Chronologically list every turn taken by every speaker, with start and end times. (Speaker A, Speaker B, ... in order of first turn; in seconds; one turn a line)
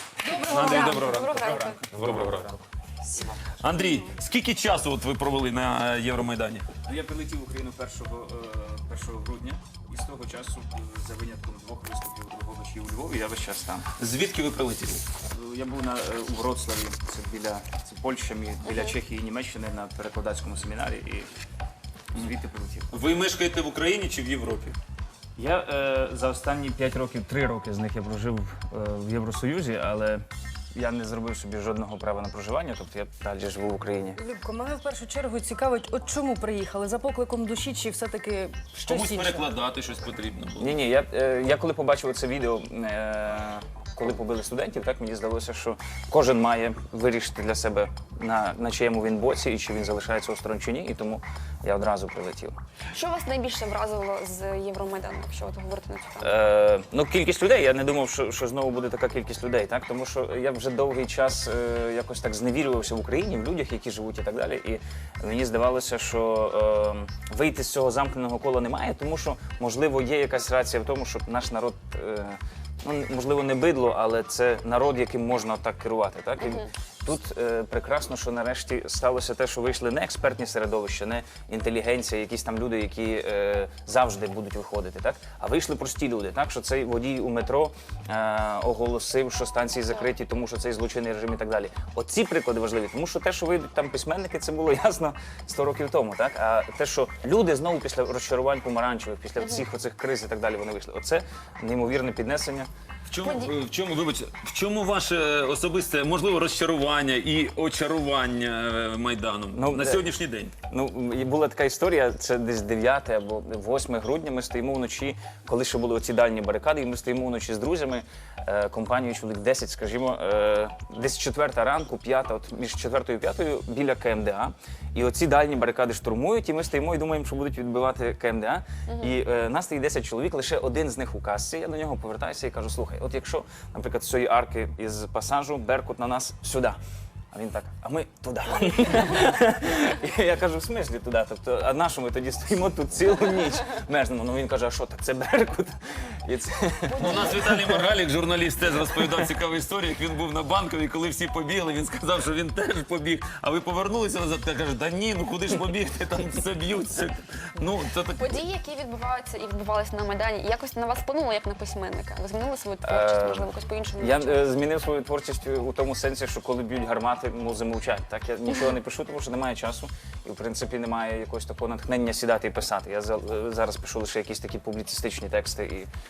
Speaker A: 0.2-2.5
Speaker B: 0.3-0.9
Speaker C: 0.6-1.9
Speaker D: 0.8-3.3
Speaker A: 3.6-6.7
Speaker D: 6.8-13.9
Speaker A: 14.0-15.1
Speaker D: 15.2-21.3
Speaker D: 22.1-22.9
Speaker A: 22.9-24.8
Speaker D: 25.4-30.2
Speaker D: 30.8-34.2
Speaker B: 34.2-39.5
Speaker A: 38.8-40.8
Speaker D: 40.6-52.5
Speaker C: 52.9-56.4
Speaker D: 56.2-102.7
Speaker A: 103.1-110.5
Speaker C: 103.2-103.5
Speaker D: 109.5-110.0
Speaker D: 110.7-136.8
Speaker C: 128.9-129.1
Speaker D: 137.3-147.8
Speaker A: 147.0-158.4
Speaker D: 149.0-149.3
Speaker C: 158.2-164.5
Speaker D: 162.8-175.9